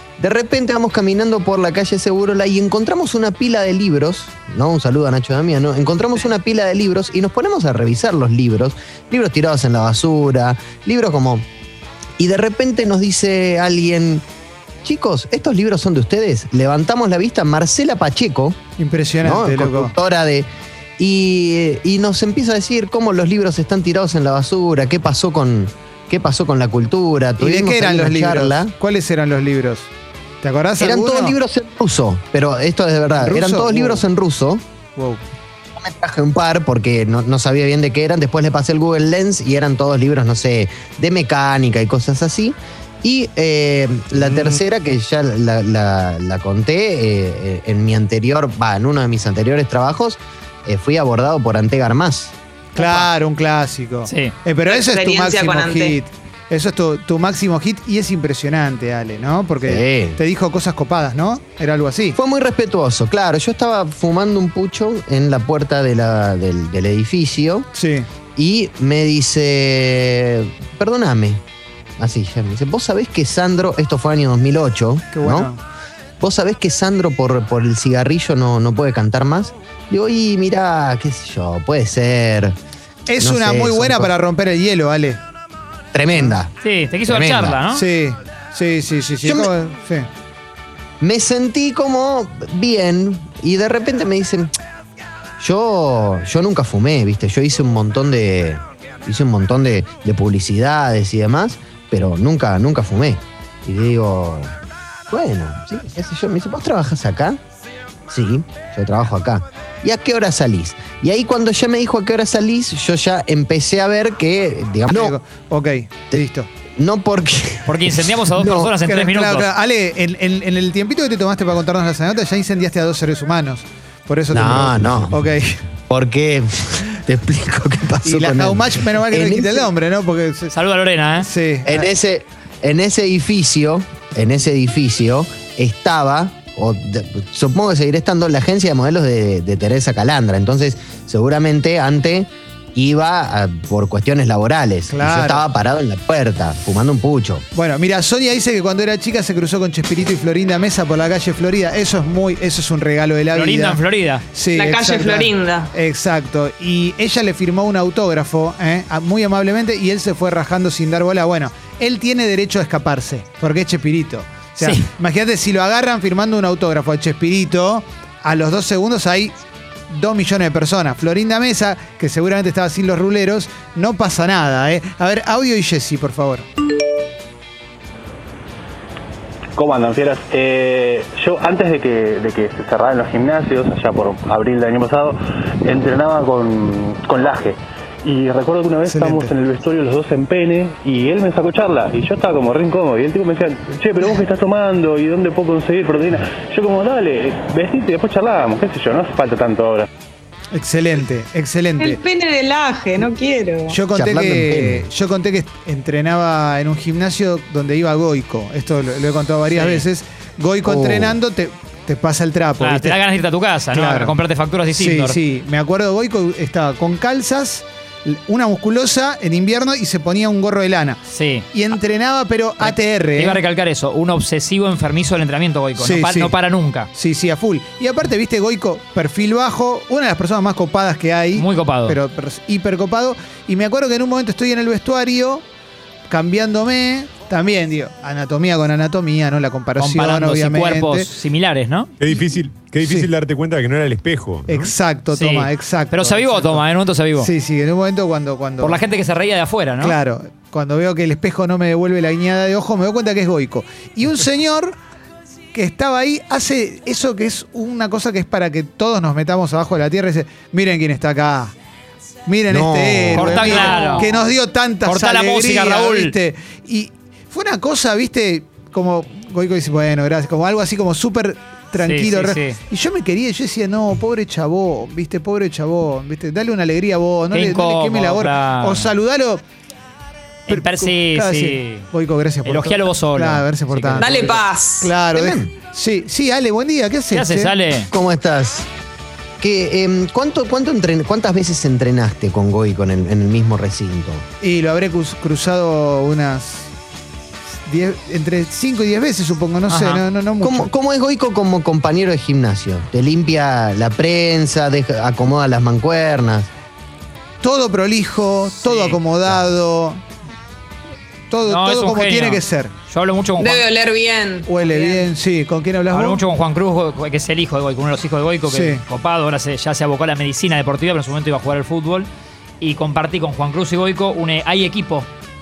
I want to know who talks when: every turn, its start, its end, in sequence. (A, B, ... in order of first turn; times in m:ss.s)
0:00.2-0:11.4 A
0:12.2-0:14.2 A
0:14.8-0:18.6 A
0:18.8-0:19.9 B
0:19.2-0:20.5 A
0:21.0-0:28.7 A
0:27.4-0:29.9 B
0:30.4-0:31.4 B
0:30.8-0:34.6 A
0:33.2-0:34.0 B
0:35.0-0:35.2 B
0:35.8-0:52.3 A
0:44.2-0:44.6 B
0:52.8-1:02.2 B
0:52.8-0:53.1 C
0:54.1-0:54.3 C
0:54.7-0:56.0 D
0:59.7-1:00.2 A
1:02.2-1:07.7 A
1:07.7-1:08.1 B
1:08.4-1:11.4 A
1:12.0-1:15.5 A
1:15.1-1:15.6 B
1:16.2-1:22.6 A
1:23.1-1:25.2 B
1:23.2-1:24.1 A
1:25.9-1:26.5 A
1:26.6-1:27.8 C
1:27.1-1:27.6 A
1:27.7-1:30.1 B
1:29.2-1:29.5 A
1:31.0-1:34.5 A
1:35.4-1:44.5 A
1:45.1-1:47.4 A
1:48.1-1:55.2 A
1:54.9-1:56.5 B
1:56.1-1:58.7 A
1:57.7-1:59.5 C
1:58.8-2:05.6 B
2:04.3-2:05.2 A
2:05.9-2:09.7 A
2:08.0-2:10.5 B
2:10.5-2:11.3 C
2:11.2-2:11.9 B
2:11.6-2:27.5 A
2:24.9-2:25.5 B
2:27.6-2:33.8 B
2:33.3-2:34.2 C
2:34.3-2:49.3 B
2:34.5-2:35.7 D
2:44.6-2:44.9 C
2:49.9-2:56.5 B
2:59.6-3:19.9 E
3:08.9-3:09.3 B
3:20.5-3:22.0 B
3:21.8-3:23.8 D
3:23.7-3:33.0 B
3:23.9-3:24.9 A
3:29.5-3:29.8 C
3:30.6-3:31.2 A
3:32.6-3:35.2 C
3:33.7-3:34.1 B
3:34.7-3:41.0 B
3:41.1-3:41.5 C
3:41.5-3:43.4 B
3:42.6-3:46.9 C
3:45.8-3:46.3 B
3:46.9-3:55.4 B
3:51.4-3:52.0 C
3:56.1-4:01.1 B
3:59.8-4:01.9 C
4:02.0-4:04.7 F
4:02.8-4:03.1 B
4:04.5-4:06.6 B
4:05.1-4:07.3 C
4:07.2-4:08.8 B
4:08.6-4:10.0 C
4:09.8-4:14.8 B
4:15.5-4:21.5 B
4:22.3-4:39.4 B
4:22.5-4:23.8 A
4:23.2-4:24.1 C
4:24.8-4:26.1 C
4:31.8-4:32.6 C
4:37.3-4:38.9 C
4:40.5-4:41.9 C
4:40.5-4:47.5 B
4:42.4-4:44.3 C
4:44.0-4:44.9 D
4:45.1-4:45.5 A
4:47.1-4:47.9 C
4:47.9-4:48.7 A
4:49.4-4:54.2 A
4:54.4-4:56.7 B
4:57.7-5:00.7 B
4:59.7-5:00.0 C
5:00.4-5:06.5 A
5:07.4-5:10.0 B
5:08.6-5:09.0 C
5:11.3-5:12.7 B
5:11.4-5:13.7 C
5:13.4-5:14.8 D
5:14.5-5:16.2 B
5:15.9-5:22.1 C
5:18.5-5:18.8 B
5:22.6-5:25.1 C